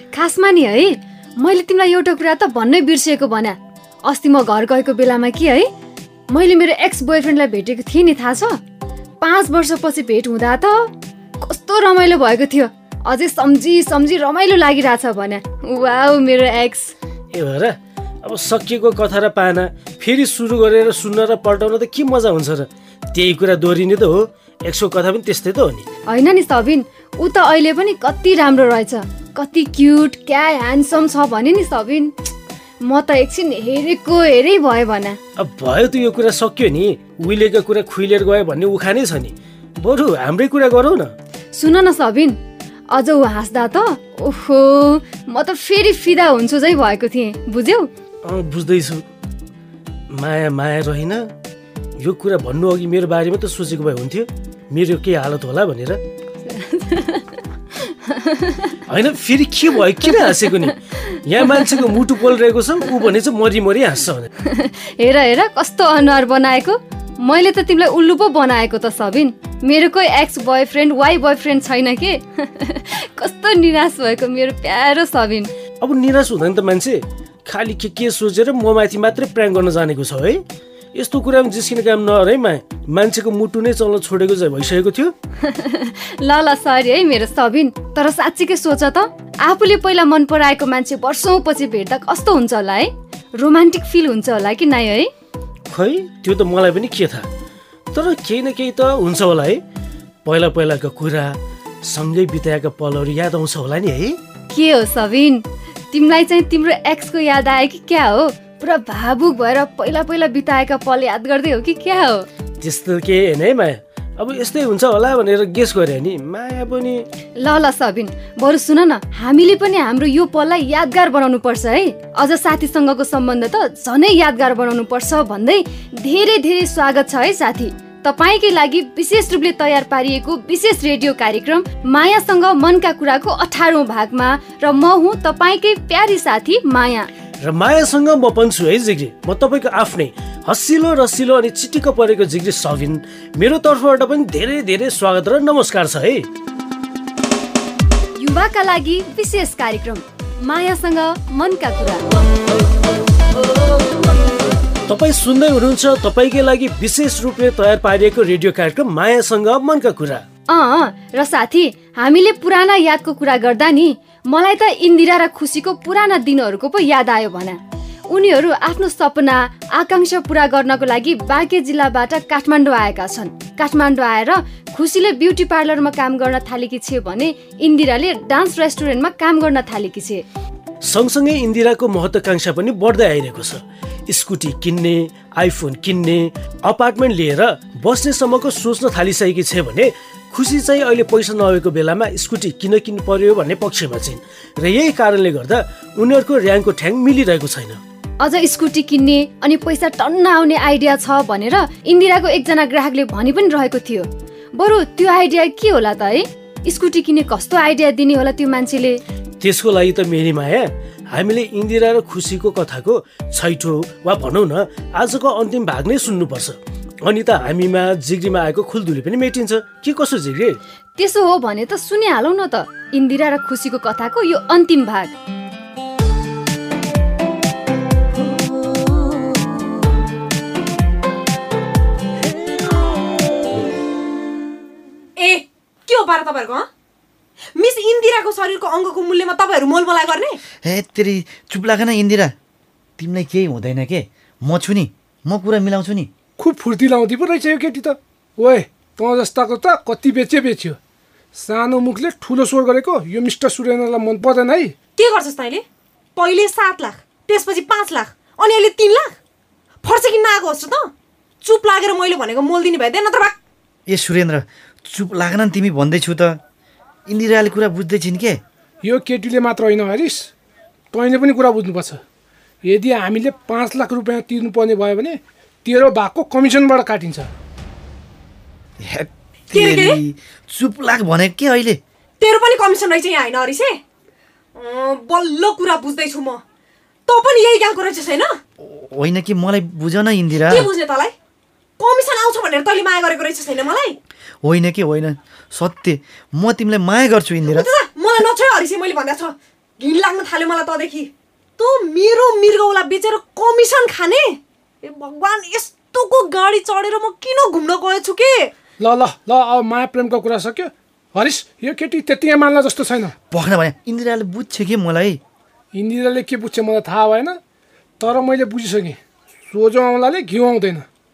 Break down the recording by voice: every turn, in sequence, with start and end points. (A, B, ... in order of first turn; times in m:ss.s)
0:00.1-0:05.7 A
0:06.3-0:08.6 A
0:09.2-0:10.9 A
0:11.4-0:16.9 A
0:17.3-0:25.8 B
0:26.1-0:32.1 A
0:32.8-0:35.2 A
0:35.4-0:41.1 B
0:41.5-0:42.4 A
0:42.9-0:47.9 A
0:48.2-0:49.0 B
0:50.1-0:51.3 B
0:52.0-0:56.0 B
0:56.4-0:58.7 A
0:58.9-1:04.3 B
1:00.1-1:00.5 A
1:01.4-1:01.8 A
1:04.4-1:15.5 A
1:15.8-1:20.4 B
1:20.9-1:25.1 B
1:25.4-1:35.1 A
1:35.7-1:37.3 B
1:37.9-1:39.6 B
1:40.2-1:44.2 B
1:44.5-1:52.3 A
1:52.6-1:57.0 B
1:57.4-2:17.1 A
2:17.4-2:26.2 B
2:28.2-2:32.0 A
2:34.9-2:40.2 B
2:40.5-3:00.2 A
3:00.8-3:17.8 B
3:18.2-3:29.0 A
3:29.4-3:40.6 B
3:41.0-3:45.1 A
3:55.2-3:56.7 C
3:57.6-4:00.4 C
4:00.6-4:02.3 D
4:03.0-4:06.1 D
4:06.4-4:10.8 E
4:11.3-4:14.7 E
4:15.0-4:15.6 C
4:16.2-4:19.2 C
4:19.8-4:20.9 C
4:21.4-4:23.4 C
4:23.9-4:26.4 D
4:27.1-4:28.4 D
4:28.8-4:30.3 E
4:30.9-4:32.0 E
4:32.6-4:37.3 E
4:38.8-4:41.8 D
4:39.5-4:40.0 C
4:42.2-4:43.8 C
4:44.5-4:46.4 C
4:47.1-4:48.4 C
4:48.6-4:50.7 D
4:50.5-4:51.1 C
4:51.8-4:54.0 C
4:54.4-4:57.7 D
4:57.5-5:08.5 C
5:08.8-5:13.1 E
5:13.3-5:15.2 D
5:15.7-5:17.4 E
5:18.0-5:20.8 E